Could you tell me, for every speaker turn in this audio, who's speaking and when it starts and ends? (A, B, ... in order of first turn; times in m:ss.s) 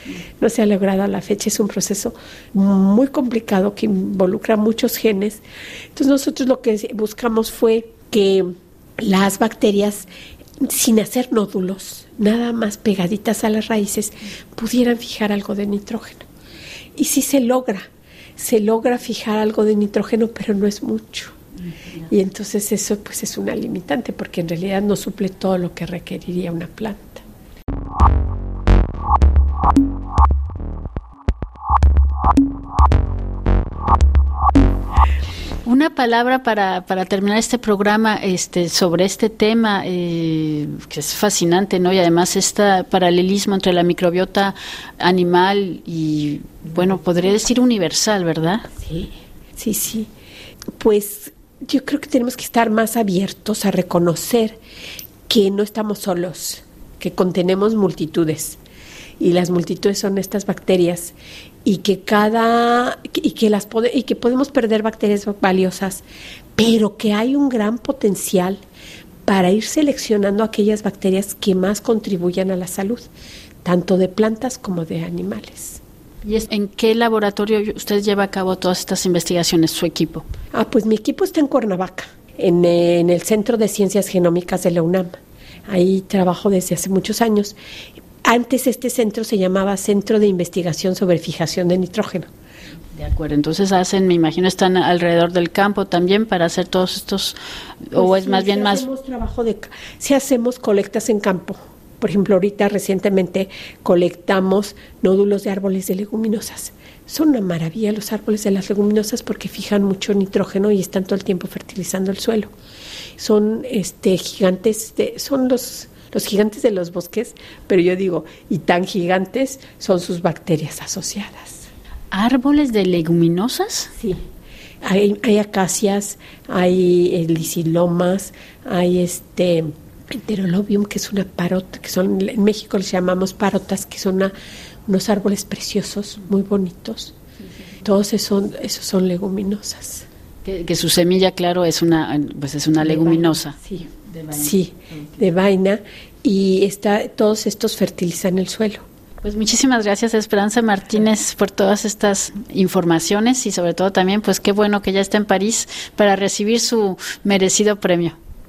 0:00.4-0:05.4 A
0:06.0-0:10.1 A
0:10.6-0:16.3 A
0:17.0-0:21.4 A
0:22.0-0:27.2 A
0:35.6-0:48.7 B
0:48.8-0:50.1 A
0:50.8-0:54.6 A
0:55.3-0:58.6 A
0:59.2-1:06.0 A
1:06.6-1:08.6 A
1:09.3-1:13.1 A
1:13.6-1:15.8 A
1:16.2-1:20.2 B
1:20.5-1:25.2 A
1:25.7-1:27.6 A
1:28.2-1:32.3 A
1:32.9-1:38.9 B
1:38.0-1:52.5 A
1:53.2-2:01.7 A
2:02.1-2:03.9 B
2:04.0-2:04.2 A
2:04.8-2:14.3 A
2:14.9-2:17.1 A
2:17.8-2:20.1 A
2:20.4-2:24.5 B
2:22.8-2:28.8 A
2:29.2-2:38.2 B